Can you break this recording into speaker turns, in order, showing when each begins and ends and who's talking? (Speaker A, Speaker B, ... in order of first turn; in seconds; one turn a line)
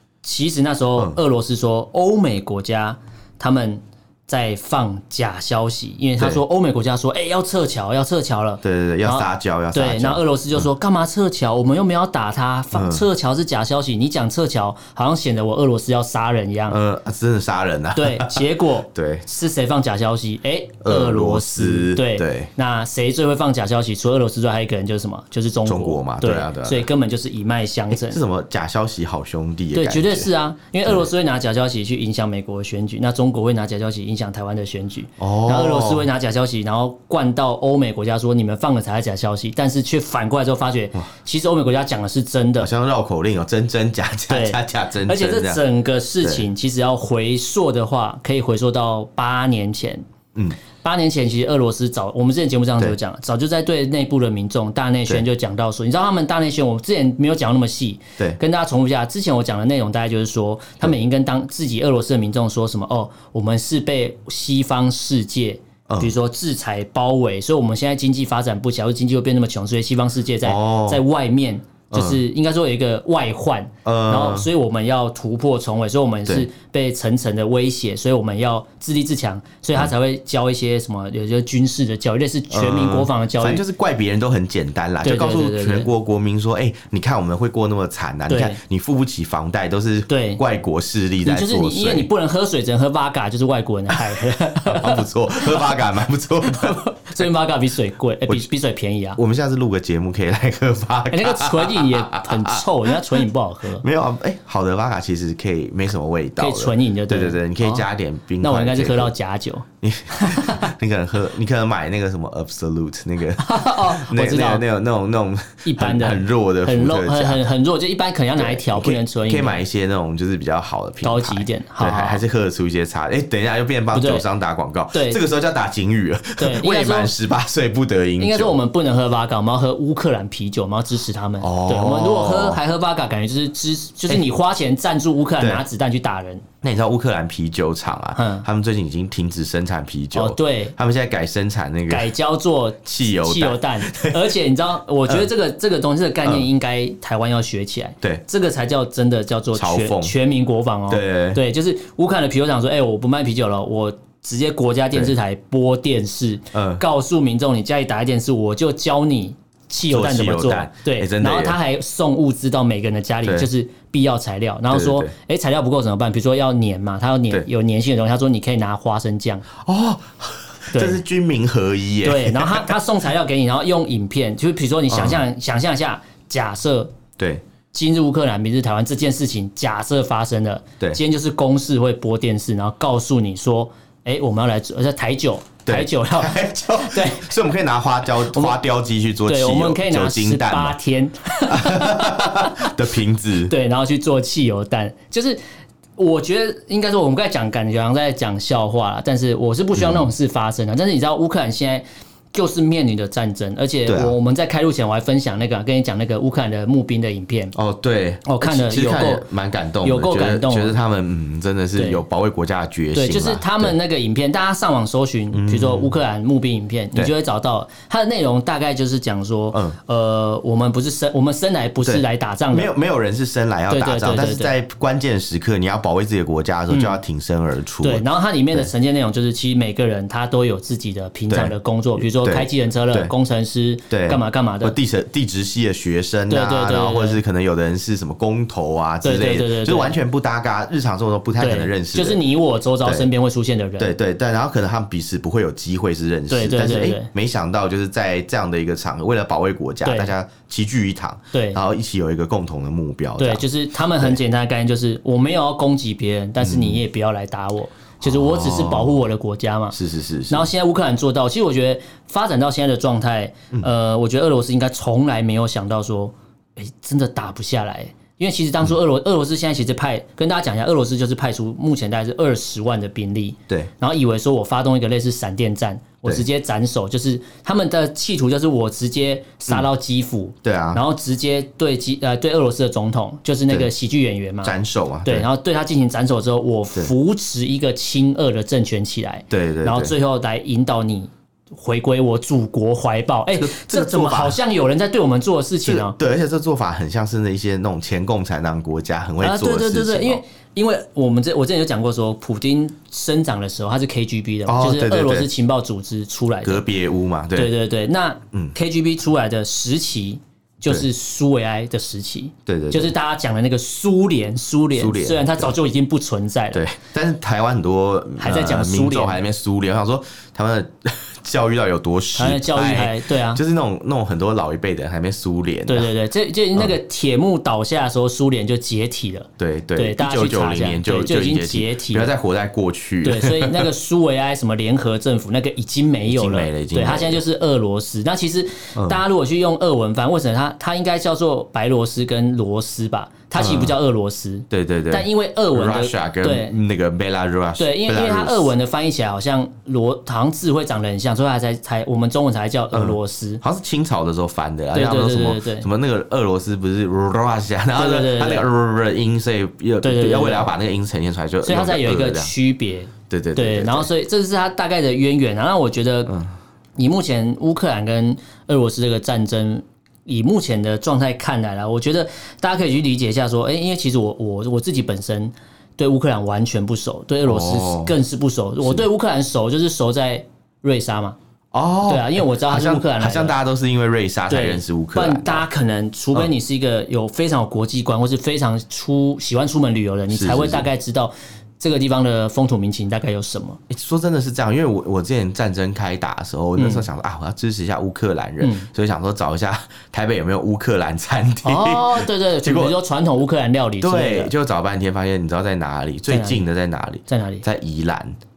Speaker A: 0.2-16.8
Speaker B: 8.6-10.6
Speaker B: 12.7-13.0
Speaker B: 16.7-19.2
Speaker A: 17.9-28.2
Speaker B: 20.8-22.5
Speaker B: 25.6-26.9
Speaker B: 27.9-30.3
Speaker A: 29.7-42.7
Speaker B: 35.2-36.1
Speaker B: 42.6-45.6
Speaker A: 44.3-50.0
Speaker A: 50.8-83.6
Speaker B: 65.9-66.1
Speaker B: 70.4-71.0
Speaker B: 71.9-72.2
Speaker B: 73.8-74.5
Speaker B: 82.5-92.1
Speaker A: 85.0-85.9
Speaker A: 88.3-88.6
Speaker A: 90.1-90.4
Speaker A: 91.2-95.8
Speaker B: 93.9-96.8
Speaker A: 96.4-99.2
Speaker B: 99.2-103.2
Speaker A: 101.1-103.8
Speaker B: 103.7-109.1
Speaker A: 106.4-107.8
Speaker A: 108.4-110.7
Speaker B: 109.8-117.4
Speaker A: 113.4-114.6
Speaker A: 115.6-119.6
Speaker B: 118.4-128.6
Speaker A: 121.0-122.2
Speaker A: 123.9-124.2
Speaker A: 124.9-125.2
Speaker A: 126.4-127.1
Speaker A: 128.2-136.4
Speaker B: 131.4-132.6
Speaker B: 136.6-142.1
Speaker A: 138.2-138.4
Speaker A: 140.1-140.7
Speaker A: 141.9-169.4
Speaker B: 142.8-144.3
Speaker B: 149.5-150.1
Speaker B: 150.9-151.4
Speaker B: 156.5-156.8
Speaker B: 159.9-161.6
Speaker B: 163.2-163.5
Speaker B: 164.7-165.1
Speaker B: 169.6-172.7
Speaker A: 170.7-171.0
Speaker A: 172.0-176.9
Speaker B: 174.9-175.2
Speaker B: 177.2-177.4
Speaker A: 177.7-187.3
Speaker B: 185.7-190.8
Speaker A: 188.2-188.6
Speaker A: 189.3-192.7
Speaker B: 191.5-193.5
Speaker A: 193.5-195.4
Speaker A: 196.0-207.5
Speaker B: 199.8-200.1
Speaker B: 203.8-204.1
Speaker B: 207.5-213.8
Speaker A: 208.2-209.2
Speaker A: 209.8-210.8
Speaker A: 211.7-212.0
Speaker A: 212.9-222.7
Speaker B: 215.3-215.9
Speaker B: 221.8-228.7
Speaker A: 223.7-224.5
Speaker A: 226.7-227.0
Speaker A: 227.8-234.8
Speaker B: 231.3-231.5
Speaker B: 232.1-233.1
Speaker B: 233.9-242.2
Speaker A: 236.3-237.2
Speaker A: 239.0-239.9
Speaker A: 241.4-243.9
Speaker B: 242.8-243.1
Speaker B: 243.8-253.4
Speaker A: 246.3-247.1
Speaker A: 249.8-250.1
Speaker A: 251.3-251.6
Speaker A: 253.2-259.8
Speaker B: 256.4-256.8
Speaker B: 258.0-259.0
Speaker B: 259.7-260.5
Speaker A: 260.3-295.9
Speaker B: 280.4-280.8
Speaker B: 284.4-285.3
Speaker B: 289.3-289.9
Speaker B: 293.3-294.4
Speaker B: 295.6-300.2
Speaker A: 299.2-306.6
Speaker B: 304.4-305.3
Speaker B: 306.4-307.5
Speaker A: 307.3-316.6
Speaker B: 312.4-312.9
Speaker B: 314.8-315.6
Speaker B: 316.5-325.9
Speaker A: 318.2-319.2
Speaker A: 322.1-323.4
Speaker A: 325.7-332.1
Speaker B: 329.4-333.7
Speaker A: 333.0-346.5
Speaker B: 336.0-337.2
Speaker B: 338.7-339.0
Speaker B: 343.4-343.7
Speaker B: 344.5-348.5
Speaker A: 347.6-353.4
Speaker B: 352.7-362.3
Speaker A: 354.7-355.7
Speaker A: 357.7-358.5
Speaker A: 359.8-360.5
Speaker A: 361.4-366.1
Speaker B: 363.1-363.9
Speaker A: 366.8-381.2
Speaker B: 377.2-378.0
Speaker B: 381.5-385.4
Speaker A: 381.9-383.4
Speaker A: 384.3-393.6
Speaker B: 390.1-390.7
Speaker B: 393.7-402.8
Speaker A: 396.6-396.8
Speaker A: 398.4-398.7
Speaker A: 401.4-404.3
Speaker B: 403.8-408.2
Speaker A: 406.1-406.4
Speaker A: 407.1-407.4